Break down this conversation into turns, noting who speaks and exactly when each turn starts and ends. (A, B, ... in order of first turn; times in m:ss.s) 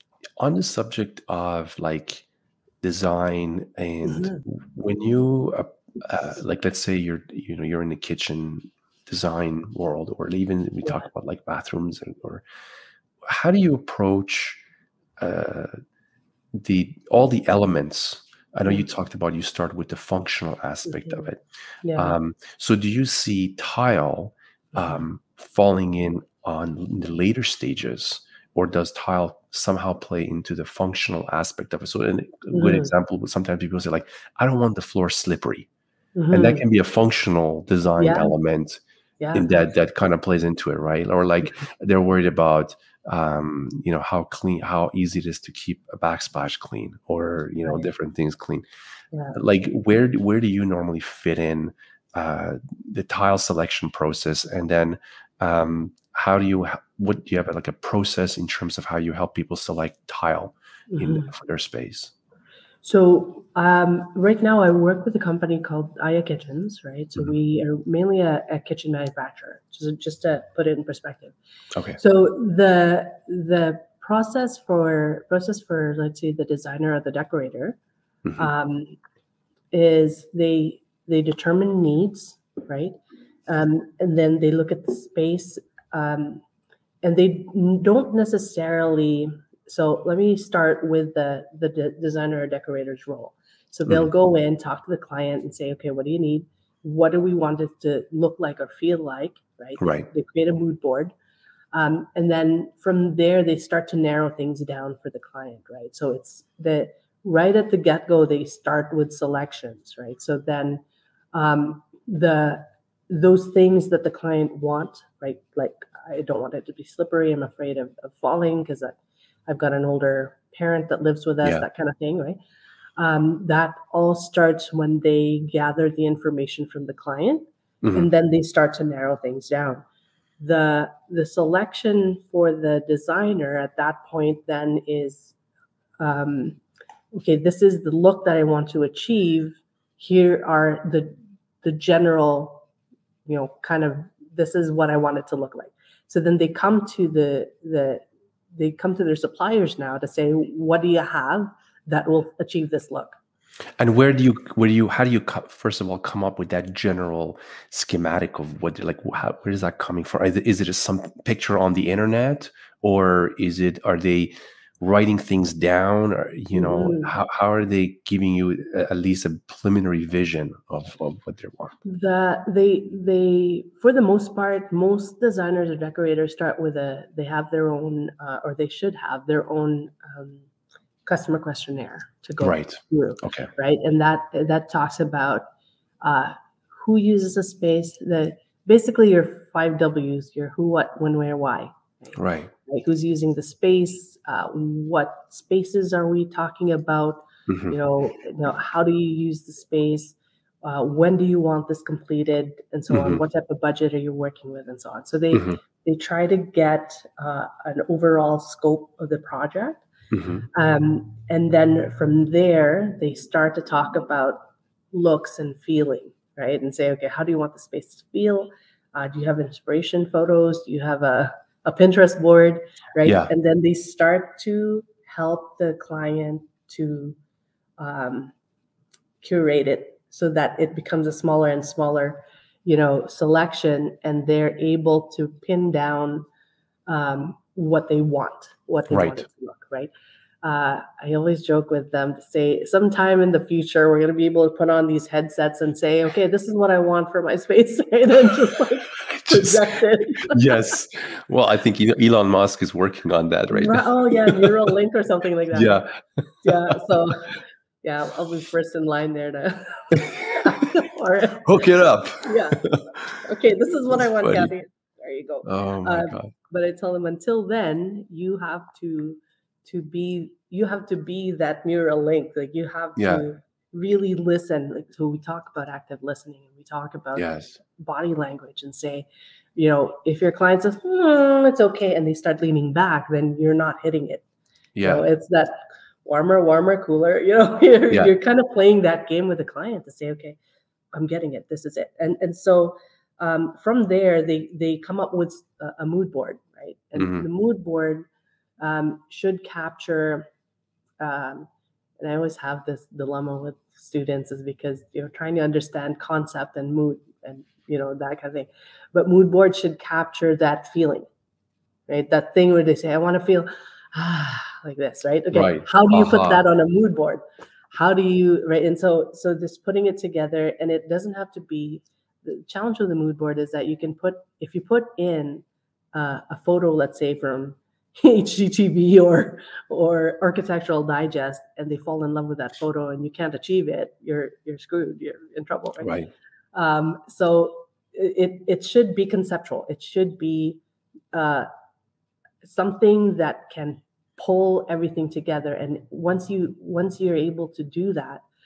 0:00.4-0:02.3 A
0:02.8-0:12.4 A
0:04.0-0:04.4 B
0:13.2-0:14.6 A
0:15.2-0:15.7 A
0:16.6-0:21.4 A
0:20.9-0:21.3 B
0:21.8-0:22.2 B
0:21.9-0:35.7 A
0:32.5-0:32.9 B
0:36.1-0:36.6 B
0:36.3-0:38.8 A
0:38.0-0:38.3 B
0:39.2-0:39.6 B
0:39.3-0:48.6 A
0:47.6-0:47.9 B
0:49.1-0:49.4 B
0:49.3-1:02.1 A
1:00.9-1:01.3 B
1:02.8-1:11.4 B
1:12.0-1:17.8 B
1:18.4-1:19.0 B
1:19.7-1:22.9 B
1:23.5-1:26.4 B
1:27.0-1:41.1 B
1:39.8-1:40.1 A
1:41.7-1:50.8 B
1:51.3-2:02.4 B
2:03.0-2:09.8 B
2:07.8-2:08.1 A
2:10.4-2:15.4 B
2:16.0-2:22.7 B
2:23.3-2:33.2 B
2:33.8-2:51.7 A
2:46.5-2:47.1 B
2:51.8-3:00.4 B
3:01.0-3:05.5 B
3:02.4-3:03.5 A
3:06.0-3:29.8 B
3:12.1-3:12.5 A
3:17.5-3:17.8 A
3:22.9-3:23.2 A
3:25.3-3:25.6 A
3:30.1-3:30.5 A
3:30.5-3:34.4 B
3:34.9-3:47.2 B
3:43.0-3:43.3 A
3:47.8-3:48.3 B
3:49.2-3:56.2 B
3:56.9-3:59.9 B
3:58.9-3:59.2 A
4:00.4-4:10.8 B
4:10.2-4:14.5 A
4:13.5-4:15.8 B
4:15.5-4:16.7 A
4:16.4-4:21.6 B
4:21.4-4:22.8 A
4:22.2-4:44.2 B
4:24.2-4:24.5 A
4:25.4-4:26.3 A
4:33.0-4:33.2 A
4:37.2-4:37.6 A
4:44.8-4:45.0 A
4:44.8-4:50.4 B
4:50.9-4:58.1 B
4:57.0-4:57.2 A
4:58.6-5:00.2 B
5:01.0-5:01.5 B
5:02.0-5:11.1 B
5:11.9-5:17.2 B
5:15.3-5:16.4 A
5:17.7-5:40.6 B
5:35.8-5:36.1 A
5:41.1-5:41.5 B
5:42.4-5:48.2 B